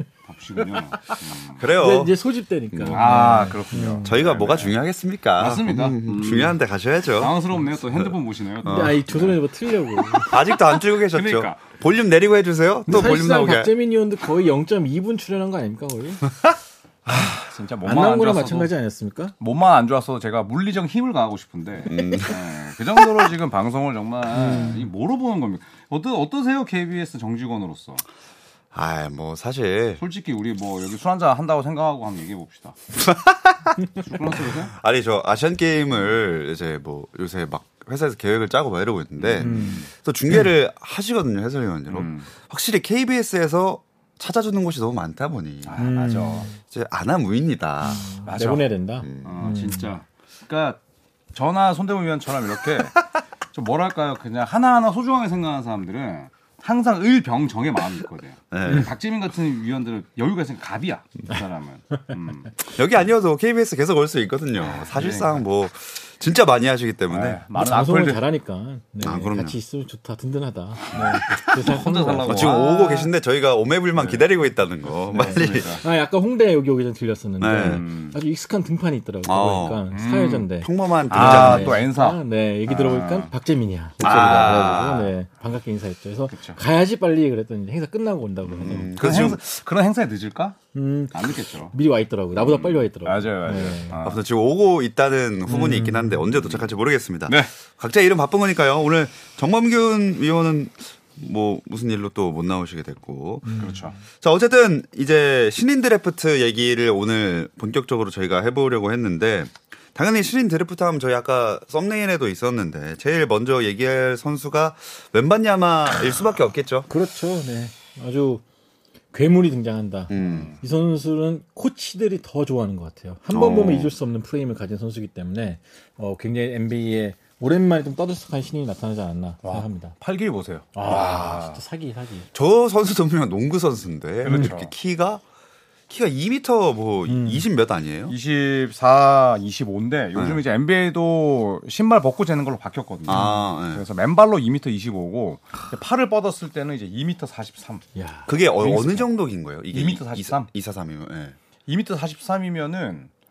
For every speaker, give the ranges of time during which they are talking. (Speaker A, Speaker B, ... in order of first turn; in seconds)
Speaker A: 0.3-1.6, 2.9-4.8, 5.4-6.6, 7.2-9.4, 11.1-11.7, 17.3-18.7, 19.4-28.0, 30.0-32.8, 34.0-34.7, 39.2-39.8, 41.9-42.3, 45.6-46.5, 48.2-48.7, 49.2-50.8, 51.3-62.5, 64.6-65.4, 67.1-68.2, 71.6-73.1, 73.9-74.3, 74.9-75.8, 77.6-78.2, 79.9-80.5, 81.1-83.3, 86.3-86.6, 88.5-90.6, 91.1-91.7, 92.4-94.2, 103.6-104.0, 120.2-120.5, 129.4-131.6, 134.2-134.7, 138.1-147.8, 148.6-149.1, 149.7-150.5, 151.7-153.1
Speaker B: 1.6-2.1, 2.7-3.0, 4.0-7.4, 8.7-9.0, 10.3-13.7, 21.9-22.4, 28.7-30.0, 33.0-45.8, 46.7-48.2, 49.0-49.5, 58.5-58.9, 62.6-67.4, 69.0-69.6, 72.2-75.8, 77.4-77.8, 79.2-79.8, 80.5-81.8, 84.0-85.1, 88.6-89.4, 94.0-103.6, 104.2-116.9, 120.1-120.5, 123.3-123.9, 132.3-135.2, 135.9-138.2, 143.1-143.8, 148.3-151.4
Speaker C: 1.8-4.1, 8.6-10.4, 12.9-16.2, 17.9-19.3, 24.3-24.9, 39.4-39.9, 45.8-46.5, 47.8-49.9, 67.5-72.5, 75.8-89.0, 90.7-94.0, 95.5-96.2, 103.5-103.9, 116.9-118.4, 119.1-130.0, 130.7-132.3, 134.3-134.5, 137.1-137.4, 143.1-143.4, 147.9-148.3